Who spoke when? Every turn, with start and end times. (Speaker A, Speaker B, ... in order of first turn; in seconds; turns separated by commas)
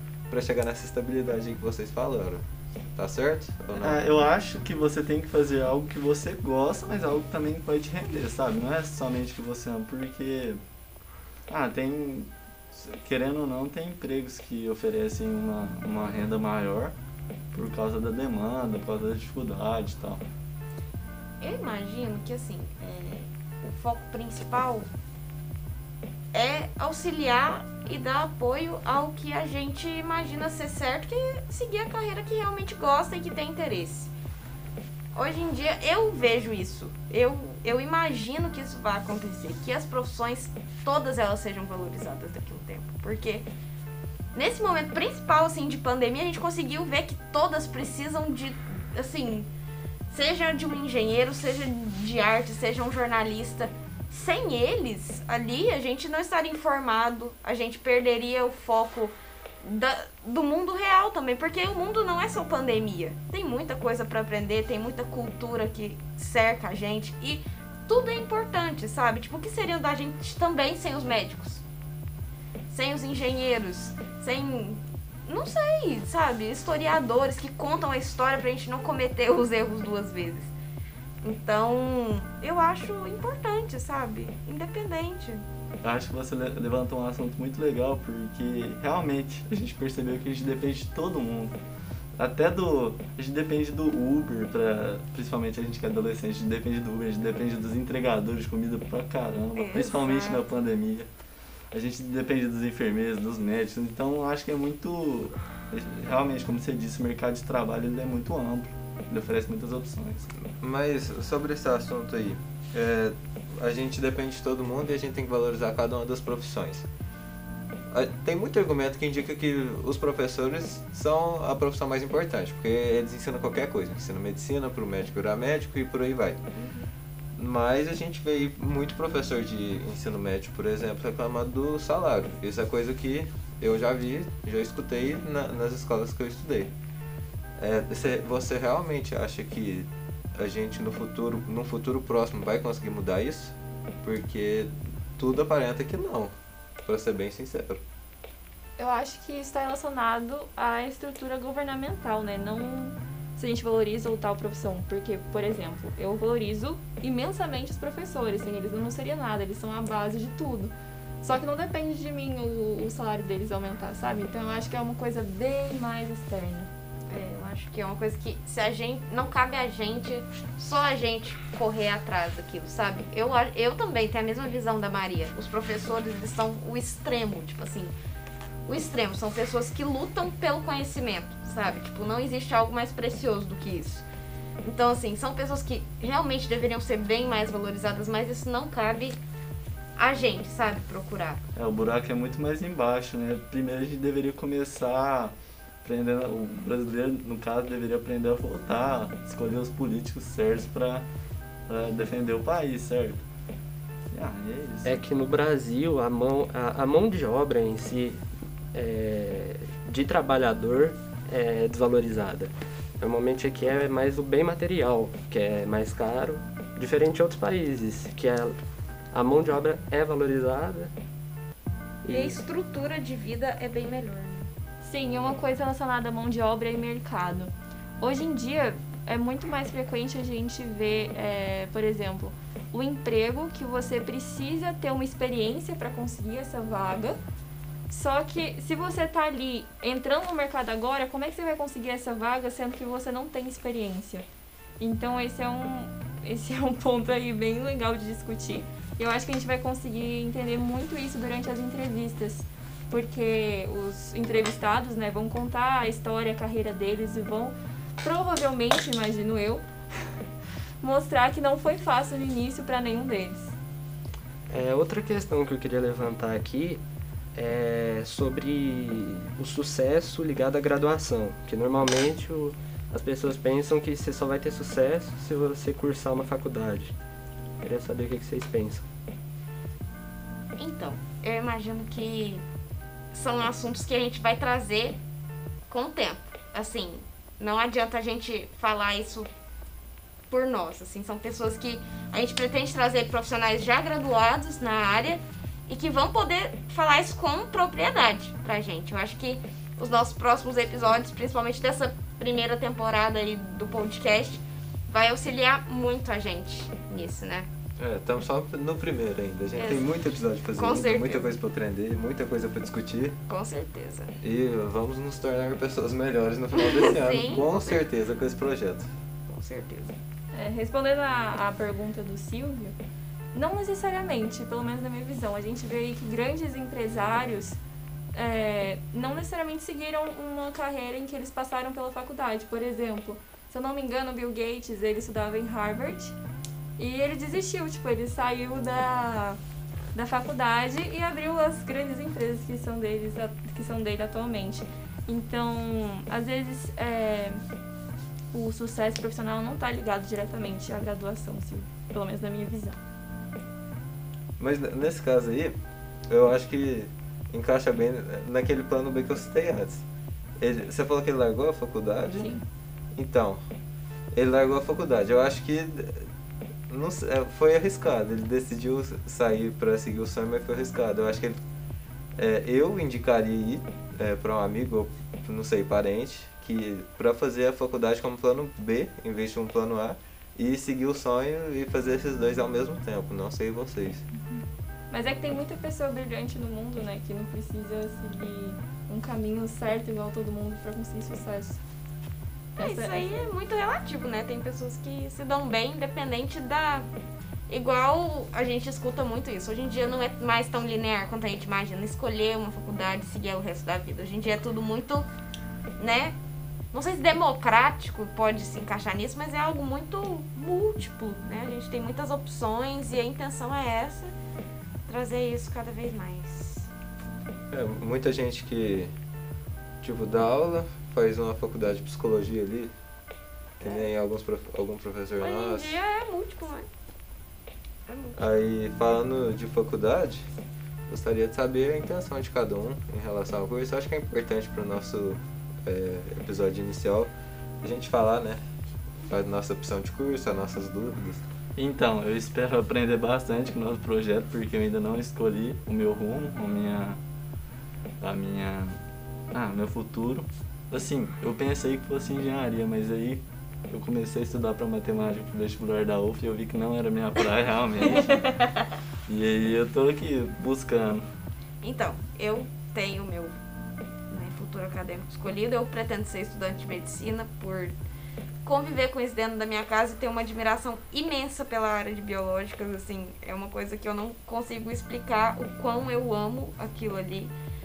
Speaker A: 0.3-2.4, Speaker A: 3.0-4.0, Speaker B: 3.8-10.6, Speaker B: 11.5-16.9, Speaker B: 17.5-20.2, Speaker C: 21.4-24.9, Speaker C: 26.3-34.1, Speaker C: 35.1-43.5, Speaker C: 44.3-49.5, Speaker C: 50.1-71.6, Speaker C: 72.7-80.5, Speaker C: 81.2-85.5, Speaker B: 85.8-91.5, Speaker B: 92.2-101.1, Speaker C: 99.5-100.4, Speaker B: 101.7-110.3, Speaker A: 110.6-116.9, Speaker A: 117.9-126.4, Speaker C: 126.5-126.9, Speaker A: 127.4-136.7, Speaker A: 137.6-146.3, Speaker A: 146.8-147.8, Speaker D: 148.8-166.7, Speaker C: 167.1-177.9, Speaker C: 178.7-184.1, Speaker C: 184.6-189.2, Speaker C: 190.0-191.4, Speaker B: 191.6-201.1, Speaker B: 201.7-203.2, Speaker B: 204.1-205.0, Speaker E: 204.8-218.6, Speaker E: 219.1-220.9, Speaker E: 222.0-222.4, Speaker C: 222.1-224.5, Speaker D: 224.8-237.2, Speaker D: 237.9-244.3, Speaker D: 244.8-259.7, Speaker D: 260.8-263.5, Speaker E: 264.5-266.8, Speaker E: 267.4-276.9, Speaker E: 277.6-278.9, Speaker C: 280.6-282.4, Speaker C: 283.1-285.0, Speaker C: 285.7-289.3, Speaker C: 290.3-307.5, Speaker A: 307.8-313.2, Speaker C: 309.6-309.9, Speaker C: 310.5-311.3, Speaker C: 313.3-314.2, Speaker A: 314.2-318.9, Speaker C: 316.6-317.9, Speaker C: 319.3-320.0, Speaker D: 320.3-322.8, Speaker D: 323.3-327.6, Speaker D: 328.1-336.1, Speaker D: 336.8-339.4, Speaker D: 339.9-347.5, Speaker D: 348.3-352.8, Speaker A: 354.4-355.6, Speaker A: 356.1-359.9, Speaker A: 360.4-362.3, Speaker D: 362.2-362.4, Speaker A: 362.9-363.4, Speaker A: 364.1-366.1, Speaker A: 366.7-371.4, Speaker A: 372.2-384.0, Speaker D: 384.9-391.6, Speaker C: 392.6-396.9, Speaker D: 392.6-393.3, Speaker C: 397.5-405.1, Speaker C: 405.8-406.2, Speaker C: 406.7-414.1, Speaker C: 414.9-416.7, Speaker A: 417.5-418.9, Speaker A: 419.8-422.7, Speaker C: 423.6-423.9, Speaker A: 423.6-425.8, Speaker C: 425.2-426.7, Speaker C: 427.9-428.2, Speaker A: 428.2-430.3, Speaker A: 430.9-438.4, Speaker A: 439.1-441.2, Speaker B: 441.6-447.0, Speaker B: 448.0-448.8, Speaker B: 449.3-458.3, Speaker B: 459.1-461.1, Speaker C: 461.6-463.4, Speaker C: 464.1-467.8, Speaker C: 468.4-477.3